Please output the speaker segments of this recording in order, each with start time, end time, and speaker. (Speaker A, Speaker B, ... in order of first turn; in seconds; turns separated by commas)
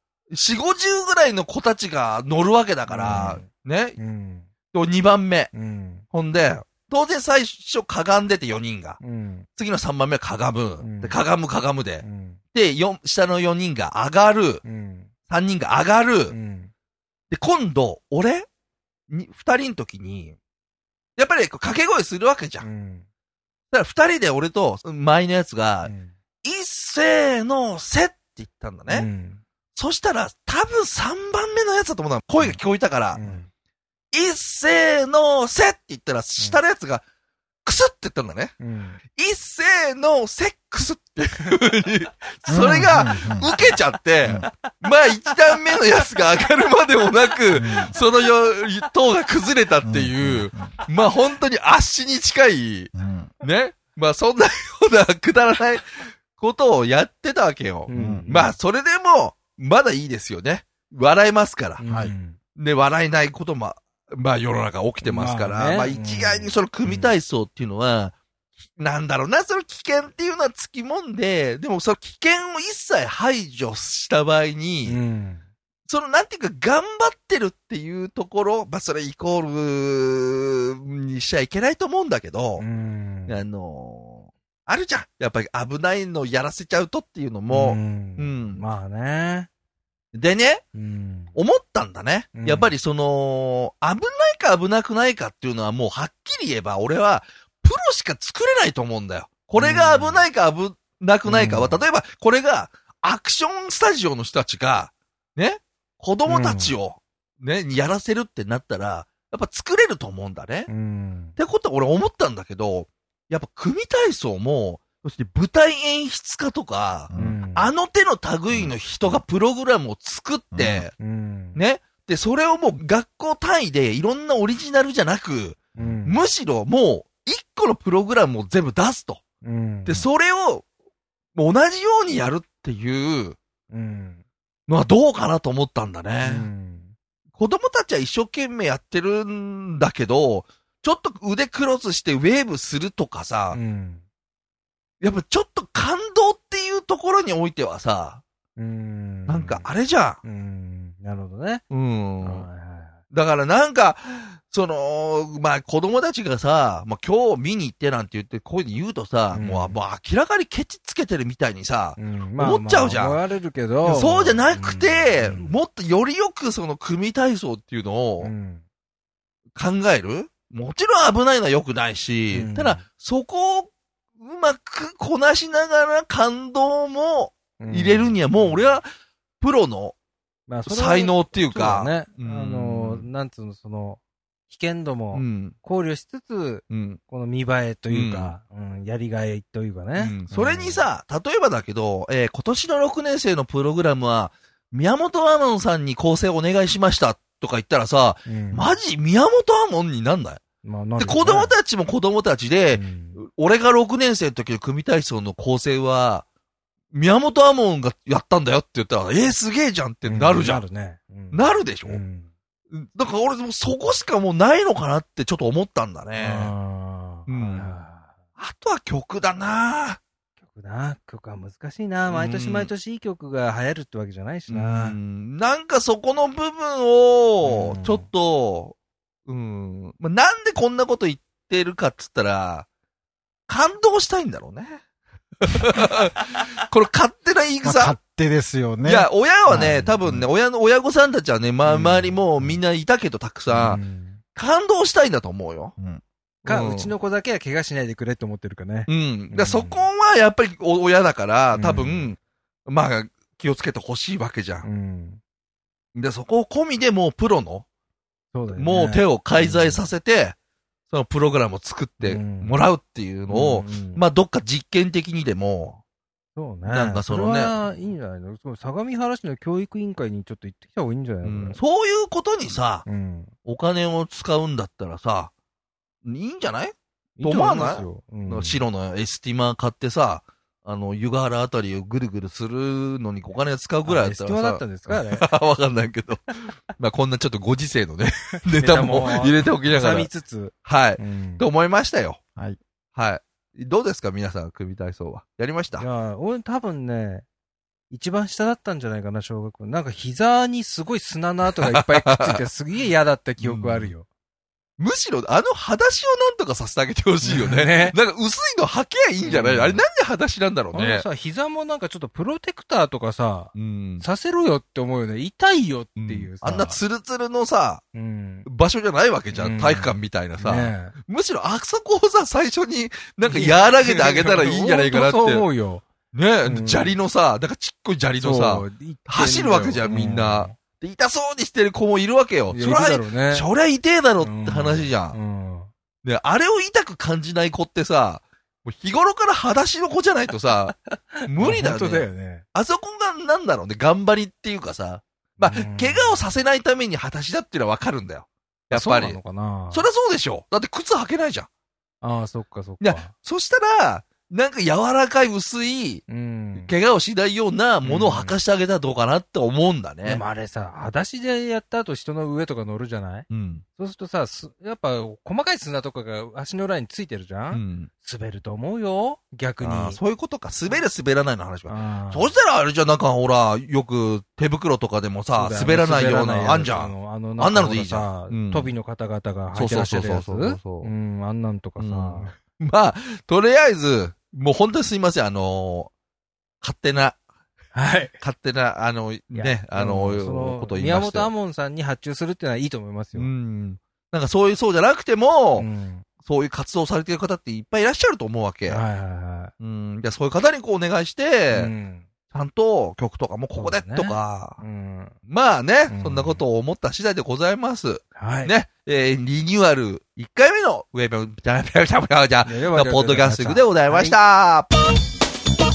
Speaker A: 0.3-4.0, Speaker B: 2.9-4.5, Speaker A: 4.7-5.5, Speaker B: 5.5-6.0, Speaker A: 6.1-9.0, Speaker B: 9.0-9.5, Speaker A: 9.6-14.6, Speaker B: 10.8-11.2, Speaker B: 12.0-12.4, Speaker B: 14.6-15.1, Speaker A: 15.3-16.4, Speaker B: 16.3-16.7, Speaker A: 17.3-18.4, Speaker A: 19.1-20.4, Speaker A: 21.2-22.7, Speaker B: 22.6-23.1, Speaker A: 23.7-25.9, Speaker B: 25.8-26.1, Speaker A: 26.4-29.1, Speaker B: 28.9-29.4, Speaker A: 29.7-33.2, Speaker B: 33.1-33.5, Speaker A: 34.1-37.0, Speaker A: 37.6-38.5, Speaker B: 38.6-39.0, Speaker A: 39.1-61.8, Speaker C: 42.5-43.5, Speaker B: 42.5-42.9, Speaker B: 43.5-43.8, Speaker B: 44.4-44.7, Speaker B: 46.0-46.4, Speaker B: 47.5-47.8, Speaker C: 47.5-47.9, Speaker C: 49.8-50.7, Speaker C: 52.9-53.3, Speaker B: 57.9-58.5, Speaker C: 57.9-58.3, Speaker B: 61.8-62.4, Speaker C: 61.9-62.1, Speaker A: 62.6-68.2, Speaker B: 65.0-67.1, Speaker A: 68.7-75.0, Speaker B: 74.9-75.4, Speaker A: 75.9-82.7, Speaker B: 82.6-83.4, Speaker A: 83.3-88.6, Speaker B: 87.5-89.5, Speaker A: 90.1-90.6, Speaker B: 90.7-91.3, Speaker A: 91.3-110.7, Speaker B: 92.3-92.7, Speaker B: 99.5-100.2, Speaker B: 101.2-101.8, Speaker B: 106.3-106.8, Speaker B: 110.7-111.3, Speaker A: 111.4-121.0, Speaker C: 117.1-117.4, Speaker B: 117.1-117.7, Speaker C: 118.5-119.2, Speaker C: 120.5-120.9, Speaker B: 121.0-121.6, Speaker A: 121.5-129.2, Speaker B: 125.8-126.2, Speaker B: 129.4-130.1, Speaker A: 129.8-130.7, Speaker A: 131.3-133.4, Speaker B: 133.7-134.2, Speaker A: 134.7-136.5, Speaker B: 136.2-136.9, Speaker A: 137.3-143.6, Speaker B: 143.5-144.0, Speaker A: 145.0-148.2, Speaker B: 148.6-149.7, Speaker A: 149.3-150.2, Speaker B: 150.2-151.6, Speaker A: 151.7-152.5, Speaker B: 152.2-153.0, Speaker A: 153.1-163.2, Speaker B: 159.3-159.8, Speaker B: 162.0-165.6, Speaker A: 163.8-168.3, Speaker B: 168.2-168.6, Speaker A: 169.5-178.9, Speaker B: 172.3-172.8, Speaker B: 177.6-178.8, Speaker A: 179.4-179.9, Speaker B: 180.5-190.9, Speaker A: 180.7-183.1, Speaker A: 185.1-185.6, Speaker A: 186.7-187.0, Speaker A: 187.9-188.3, Speaker A: 189.9-200.4, Speaker B: 198.3-198.7, Speaker B: 200.6-201.5, Speaker A: 201.0-206.2, Speaker B: 202.7-203.2, Speaker A: 206.9-210.6, Speaker B: 210.1-212.3, Speaker A: 211.3-212.0, Speaker A: 212.7-216.5, Speaker B: 216.2-218.1, Speaker A: 217.3-217.7, Speaker A: 218.4-220.0, Speaker B: 220.5-224.9, Speaker A: 222.1-222.7, Speaker A: 224.5-228.7, Speaker B: 227.4-228.0, Speaker A: 229.3-232.7, Speaker A: 233.5-234.8, Speaker A: 235.4-238.0, Speaker C: 237.6-240.3, Speaker A: 238.8-243.8, Speaker B: 241.7-242.2, Speaker B: 243.5-244.2, Speaker A: 244.3-245.7, Speaker B: 246.4-249.9, Speaker A: 246.4-246.9, Speaker A: 248.9-254.7, Speaker B: 251.5-252.1, Speaker B: 254.6-255.2, Speaker A: 255.9-257.6, Speaker B: 258.3-259.9, Speaker A: 258.5-260.4, Speaker A: 260.9-265.8, Speaker B: 262.0-262.6, Speaker B: 263.3-264.0, Speaker B: 266.4-271.6, Speaker A: 266.6-267.6, Speaker A: 271.2-272.9, Speaker B: 272.9-273.3, Speaker A: 273.4-275.3, Speaker A: 276.0-290.1, Speaker B: 277.2-278.6, Speaker B: 283.8-285.3, Speaker B: 288.6-291.4, Speaker A: 290.6-292.2, Speaker A: 292.9-295.9, Speaker B: 295.8-297.2, Speaker B: 297.9-304.1, Speaker A: 301.6-302.4, Speaker A: 303.4-303.9, Speaker A: 304.8-311.0, Speaker B: 307.2-307.9, Speaker B: 309.2-309.8, Speaker B: 310.7-316.8, Speaker A: 313.5-314.0, Speaker A: 316.0-317.8, Speaker B: 317.9-318.5, Speaker A: 318.4-325.4, Speaker B: 319.3-320.9, Speaker B: 323.2-325.8, Speaker A: 326.1-335.2, Speaker B: 326.4-327.0, Speaker B: 328.2-330.5, Speaker B: 332.5-333.5, Speaker B: 334.2-335.7, Speaker A: 336.0-349.2, Speaker B: 340.9-342.4, Speaker B: 345.4-346.2, Speaker B: 348.7-349.9, Speaker A: 349.7-351.5, Speaker B: 352.0-353.1, Speaker A: 352.8-356.0, Speaker B: 356.1-356.7, Speaker A: 356.6-360.2, Speaker B: 357.8-358.4, Speaker B: 360.0-370.0, Speaker A: 363.3-363.6, Speaker A: 367.5-367.9, Speaker A: 369.6-378.7, Speaker B: 371.7-372.3, Speaker B: 375.3-382.3, Speaker A: 379.5-380.9, Speaker A: 381.8-385.9, Speaker A: 386.6-387.2, Speaker B: 387.7-388.1, Speaker A: 388.2-391.3, Speaker B: 389.3-393.3, Speaker A: 393.1-395.7, Speaker B: 395.6-396.1, Speaker A: 396.2-398.8, Speaker B: 398.7-399.5, Speaker A: 399.6-401.7, Speaker B: 401.5-402.1, Speaker A: 402.3-404.6, Speaker B: 403.5-405.1, Speaker A: 405.3-414.7, Speaker B: 405.9-406.4, Speaker B: 408.1-408.5, Speaker B: 412.4-414.2